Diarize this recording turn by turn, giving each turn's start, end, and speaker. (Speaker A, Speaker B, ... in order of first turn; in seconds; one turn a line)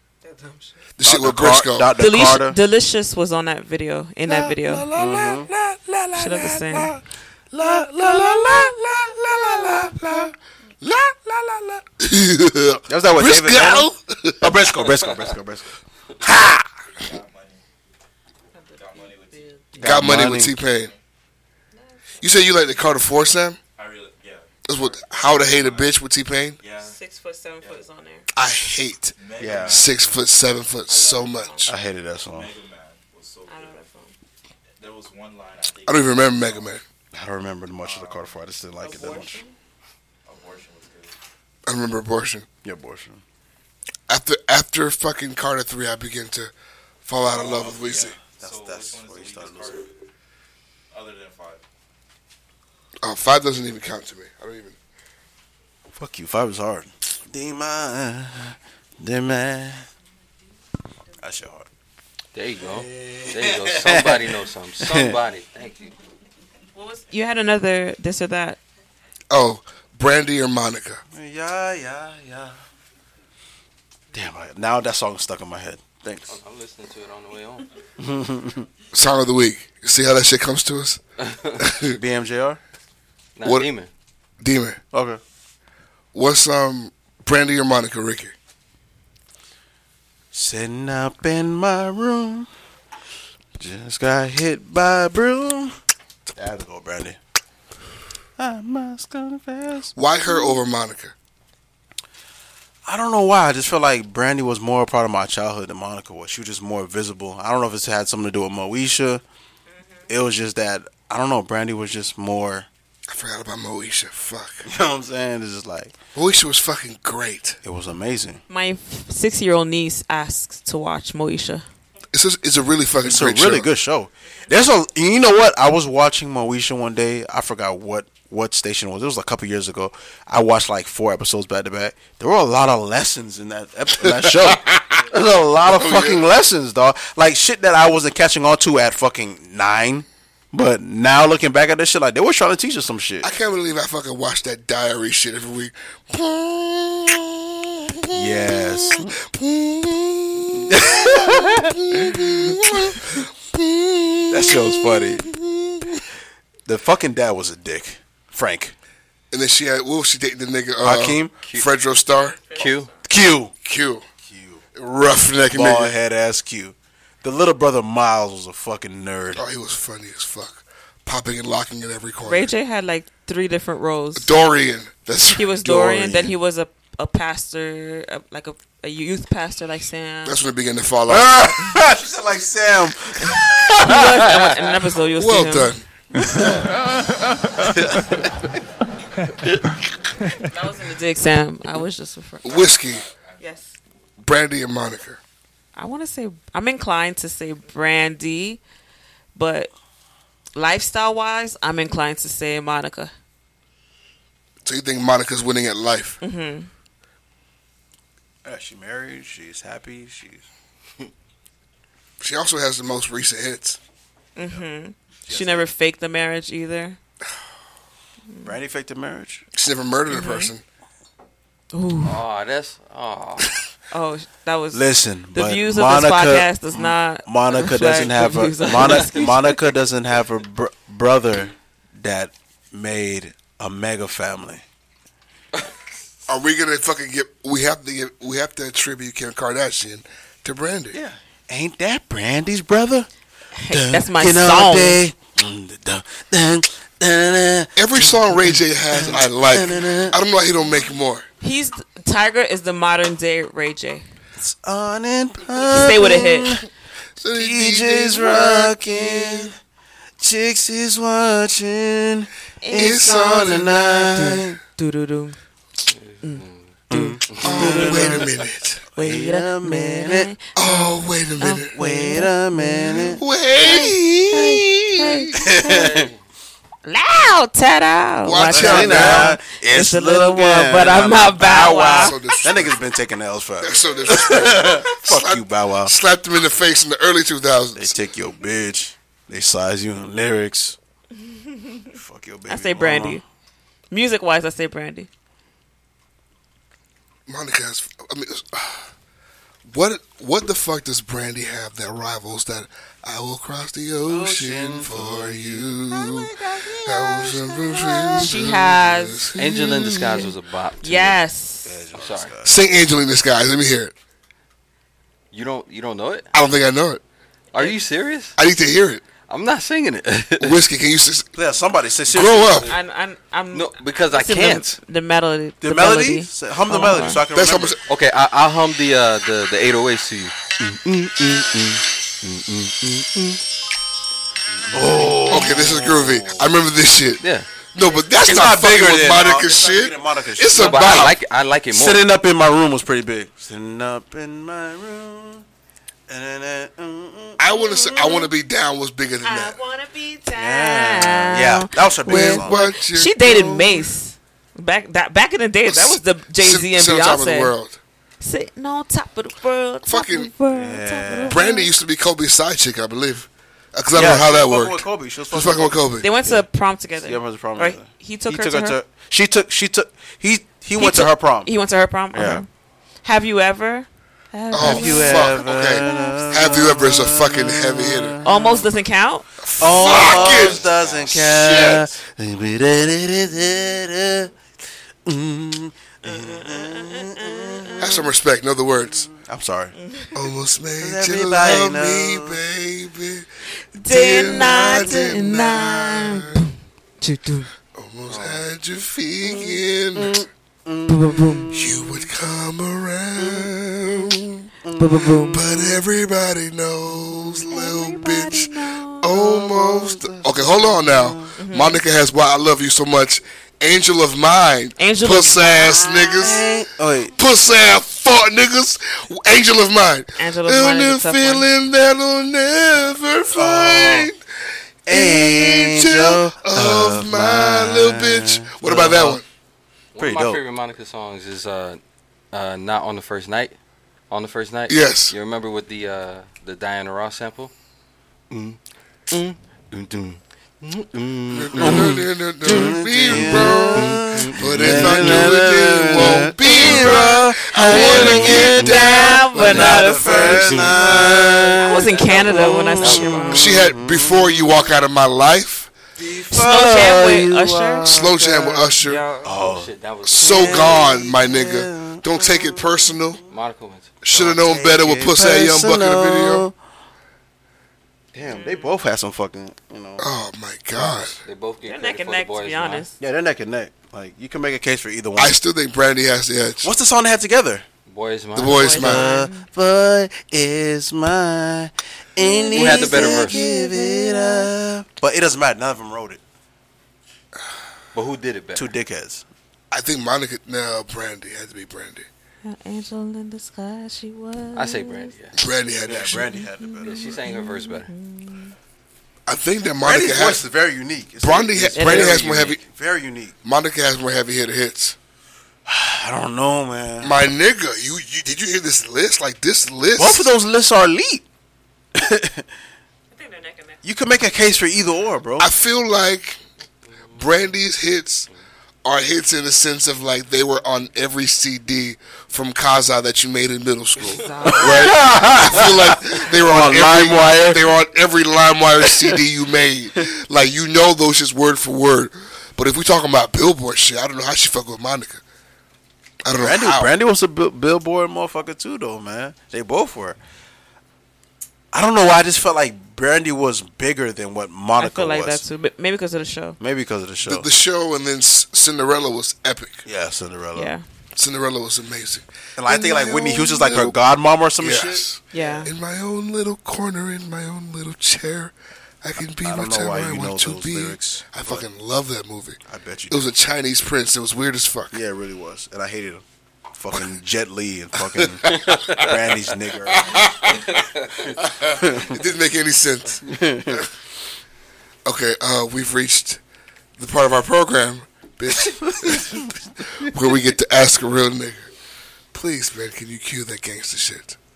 Speaker A: 1.0-1.9
Speaker B: 1.0-2.6
Speaker C: 2.0-4.9
Speaker B: 4.3-7.0
Speaker A: 4.9-6.4
Speaker C: 6.2-6.9
Speaker A: 7.5-10.3
Speaker B: 7.5-8.7
Speaker B: 9.5-10.3
Speaker A: 10.8-14.6
Speaker B: 12.9-13.9
Speaker B: 14.4-15.7
Speaker D: 14.8-15.1
Speaker A: 16.2-16.6
Speaker E: 16.9-17.6
Speaker C: 18.5-19.6
Speaker E: 18.7-19.5
Speaker B: 19.8-20.6
Speaker A: 19.8-20.9
Speaker E: 20.6-21.0
Speaker C: 21.7-22.4
Speaker A: 22.2-23.6
Speaker E: 23.8-26.0
Speaker A: 24.7-26.6
Speaker E: 26.6-27.0
Speaker C: 26.8-28.2
Speaker E: 27.6-27.8
Speaker A: 28.3-29.1
Speaker E: 29.2-30.2
Speaker B: 29.4-29.8
Speaker A: 29.6-31.7
Speaker C: 30.9-31.7
Speaker B: 31.7-32.5
Speaker E: 32.2-33.9
Speaker C: 33.5-34.1
Speaker E: 34.8-36.8
Speaker A: 35.9-36.8
Speaker B: 37.1-39.4
Speaker E: 37.8-38.4
Speaker C: 38.8-39.5
Speaker E: 40.2-41.1
Speaker A: 41.6-42.5
Speaker B: 42.6-43.2
Speaker A: 44.1-46.5
Speaker A: 47.0-48.2
Speaker B: 47.2-49.8
Speaker E: 47.5-49.9
Speaker E: 50.9-51.6
Speaker A: 53.0-54.8
Speaker B: 55.9-59.9
Speaker B: 61.2-61.7
Speaker D: 62.3-66.0
Speaker B: 62.6-65.1
Speaker C: 66.7-68.6
Speaker A: 69.3-71.0
Speaker B: 71.1-72.6
Speaker B: 74.1-76.4
Speaker D: 76.3-77.7
Speaker B: 78.0-78.7
Speaker A: 78.9-81.0
Speaker D: 81.2-81.6
Speaker A: 81.6-82.0
Speaker B: 81.9-82.6
Speaker D: 83.4-83.9
Speaker A: 83.4-83.7
Speaker A: 84.4-84.8
Speaker B: 84.9-85.2
Speaker A: 86.1-88.3
Speaker B: 90.3-92.5
Speaker B: 93.6-95.7
Speaker B: 96.3-97.2
Speaker B: 98.4-99.9
Speaker A: 99.9-101.1
Speaker B: 102.8-109.2
Speaker B: 110.1-112.7
Speaker A: 113.1-114.7
Speaker B: 114.7-115.9
Speaker A: 116.1-117.6
Speaker B: 117.6-118.4
Speaker C: 118.5-121.6
Speaker A: 122.1-123.7
Speaker B: 123.0-143.3
Speaker A: 134.0-134.6
Speaker A: 135.7-136.2
Speaker A: 143.2-156.0
Speaker B: 148.1-149.2
Speaker B: 150.7-152.2
Speaker B: 154.3-155.3
Speaker B: 156.7-158.8
Speaker A: 159.3-162.5
Speaker B: 160.8-161.3
Speaker D: 161.4-161.7
Speaker C: 162.4-163.0
Speaker D: 162.5-162.9
Speaker B: 163.0-163.5
Speaker A: 163.6-164.0
Speaker B: 164.2-164.6
Speaker A: 164.7-165.9
Speaker B: 165.5-169.4
Speaker A: 169.3-172.5
Speaker C: 172.2-174.3
Speaker A: 174.1-176.3
Speaker C: 175.3-180.4
Speaker A: 180.2-181.5
Speaker B: 181.1-184.6
Speaker C: 183.2-185.7
Speaker A: 185.2-185.8
Speaker B: 186.1-186.9
Speaker B: 187.5-188.5
Speaker C: 190.4-192.6
Speaker A: 192.4-193.0
Speaker E: 192.4-193.5
Speaker C: 193.4-193.7
Speaker A: 194.2-195.2
Speaker C: 195.8-198.6
Speaker C: 199.3-199.7
Speaker C: 200.5-203.1
Speaker A: 204.6-206.2
Speaker C: 206.2-206.7
Speaker B: 208.4-210.4
Speaker A: 212.2-213.8
Speaker C: 214.3-217.0
Speaker B: 215.3-215.7
Speaker B: 218.4-219.4
Speaker A: 219.5-220.6
Speaker C: 220.1-220.5
Speaker C: 221.7-222.2
Speaker D: 222.0-223.5
Speaker C: 223.9-229.4
Speaker B: 224.7-234.6
Speaker D: 228.8-229.3
Speaker A: 236.3-241.0
Speaker B: 240.9-243.1
Speaker C: 243.6-245.0
Speaker B: 243.7-248.2
Speaker A: 247.8-251.2
Speaker B: 248.9-250.2
Speaker C: 251.4-254.0
Speaker B: 254.4-256.6
Speaker C: 255.6-256.5
Speaker A: 257.2-259.5
Speaker B: 257.4-259.5
Speaker B: 260.2-264.6
Speaker C: 262.6-265.4
Speaker A: 262.7-264.1
Speaker D: 265.9-266.7
Speaker C: 266.2-268.2
Speaker B: 266.9-268.3
Speaker A: 267.4-268.8
Speaker B: 268.9-270.3
Speaker C: 268.9-273.2
Speaker A: 270.5-271.8
Speaker B: 271.7-273.9
Speaker A: 273.1-275.6
Speaker C: 274.3-276.0
Speaker B: 275.3-276.1
Speaker D: 275.7-276.2
Speaker C: 276.8-282.2
Speaker A: 278.2-279.4
Speaker B: 278.5-285.9
Speaker A: 281.8-282.8
Speaker A: 283.6-288.0
Speaker B: 287.8-290.8
Speaker C: 291.3-291.7
Speaker B: 291.9-293.2
Speaker C: 292.5-293.2
Speaker C: 293.9-295.1
Speaker A: 297.3-298.9
Speaker A: 299.7-310.1
Speaker B: 304.1-305.7
Speaker C: 305.9-309.4
Speaker D: 309.4-311.2
Speaker C: 310.8-311.7
Speaker B: 311.6-312.6
Speaker D: 311.9-312.3
Speaker A: 312.4-313.9
Speaker D: 315.3-316.3
Speaker A: 316.3-317.0
Speaker D: 317.5-318.4
Speaker A: 318.4-319.0
Speaker D: 319.3-320.6
Speaker A: 320.4-321.3
Speaker B: 321.4-322.7
Speaker A: 322.1-322.7
Speaker C: 322.7-327.2
Speaker D: 323.5-324.8
Speaker B: 325.6-327.8
Speaker A: 327.3-327.8
Speaker D: 327.9-333.4
Speaker B: 334.6-336.0
Speaker D: 335.0-336.5
Speaker A: 335.3-337.2
Speaker D: 337.2-337.5
Speaker A: 337.7-341.2
Speaker B: 338.1-341.1
Speaker D: 340.6-342.0
Speaker B: 341.7-345.4
Speaker B: 346.1-347.4
Speaker A: 347.4-349.6
Speaker C: 347.5-348.3
Speaker C: 349.2-357.5
Speaker B: 350.3-352.7
Speaker A: 352.0-353.9
Speaker A: 355.7-357.8
Speaker C: 358.2-361.7
Speaker A: 359.8-360.3
Speaker B: 360.5-361.4
Speaker A: 361.3-366.1
Speaker B: 363.9-371.5
Speaker C: 366.0-368.8
Speaker C: 370.8-372.5
Speaker B: 372.1-372.4
Speaker C: 373.0-375.4
Speaker A: 374.5-378.2
Speaker B: 374.5-378.6
Speaker C: 378.2-379.3
Speaker A: 379.4-381.9
Speaker B: 379.6-384.3
Speaker D: 379.8-381.8
Speaker B: 385.1-388.1
Speaker C: 386.1-387.7
Speaker A: 387.8-389.1
Speaker B: 388.9-389.7
Speaker C: 389.8-390.1
Speaker A: 390.1-393.3
Speaker B: 390.8-392.4
Speaker C: 393.7-397.5
Speaker A: 393.8-396.4
Speaker B: 394.3-395.5
Speaker A: 397.7-400.2
Speaker D: 398.1-398.4
Speaker B: 399.3-401.9
Speaker C: 400.9-401.5
Speaker A: 401.5-404.2
Speaker B: 403.2-405.4
Speaker C: 404.8-405.4
Speaker A: 405.3-416.5
Speaker C: 407.5-409.1
Speaker B: 409.0-411.4
Speaker C: 411.4-411.8
Speaker C: 414.8-415.9
Speaker B: 416.2-417.1
Speaker A: 417.1-424.2
Speaker C: 420.2-421.5
Speaker B: 423.3-424.1
Speaker B: 424.9-429.2
Speaker A: 424.9-429.2
Speaker D: 429.9-431.8
Speaker B: 430.0-430.4
Speaker D: 432.3-433.5
Speaker D: 434.1-437.5
Speaker A: 434.7-435.1
Speaker D: 438.3-442.0
Speaker A: 441.3-450.8
Speaker B: 441.6-454.5
Speaker D: 442.5-445.4
Speaker C: 446.5-447.1
Speaker C: 447.6-450.5
Speaker D: 449.4-453.4
Speaker C: 451.6-453.5
Speaker A: 453.3-455.7
Speaker B: 456.0-458.4
Speaker C: 456.3-459.4
Speaker A: 457.9-459.0
Speaker B: 459.2-462.9
Speaker D: 459.4-460.8
Speaker A: 460.0-463.2
Speaker D: 463.3-463.9
Speaker A: 464.0-466.5
Speaker B: 464.1-466.5
Speaker B: 468.1-470.1
Speaker C: 468.3-468.7
Speaker A: 470.0-471.2
Speaker D: 470.9-472.9
Speaker C: 471.6-472.9
Speaker B: 473.0-475.4
Speaker A: 475.1-476.7
Speaker B: 476.6-477.6
Speaker D: 477.9-478.6
Speaker A: 478.3-479.1
Speaker C: 478.5-479.5
Speaker B: 478.6-486.2
Speaker C: 482.2-484.5
Speaker D: 482.5-483.4
Speaker D: 487.9-488.7
Speaker B: 488.6-489.2
Speaker A: 489.7-492.1
Speaker C: 492.4-495.1
Speaker D: 494.5-495.4
Speaker A: 495.3-496.4
Speaker B: 495.8-497.2
Speaker C: 496.3-498.5
Speaker D: 496.8-497.9
Speaker A: 499.3-500.4
Speaker B: 499.8-503.3
Speaker A: 501.2-502.6
Speaker C: 501.7-502.5
Speaker A: 503.4-504.9
Speaker B: 505.7-507.1
Speaker A: 507.0-510.3
Speaker B: 509.9-511.2
Speaker B: 511.9-512.5
Speaker C: 513.1-513.8
Speaker B: 513.8-515.5
Speaker A: 515.4-516.4
Speaker A: 517.1-518.3
Speaker A: 518.8-535.2
Speaker C: 524.1-524.8
Speaker B: 524.5-527.6
Speaker B: 528.9-529.2
Speaker A: 536.2-536.9
Speaker B: 536.4-540.2
Speaker B: 541.7-545.4
Speaker C: 544.8-546.6
Speaker B: 546.6-547.5
Speaker A: 547.2-549.8
Speaker B: 549.8-550.7
Speaker C: 550.5-550.8
Speaker A: 551.1-554.0
Speaker B: 552.6-555.6
Speaker A: 554.6-565.0
Speaker C: 555.3-555.7
Speaker B: 559.4-561.6
Speaker B: 562.7-563.3
Speaker B: 564.9-570.3
Speaker A: 568.5-568.8
Speaker D: 568.5-569.0
Speaker A: 569.9-570.7
Speaker D: 570.8-571.2
Speaker A: 571.4-573.9
Speaker B: 571.5-572.2
Speaker B: 573.3-573.8
Speaker A: 575.0-576.4
Speaker A: 577.0-581.7
Speaker B: 579.0-579.5
Speaker A: 582.3-584.4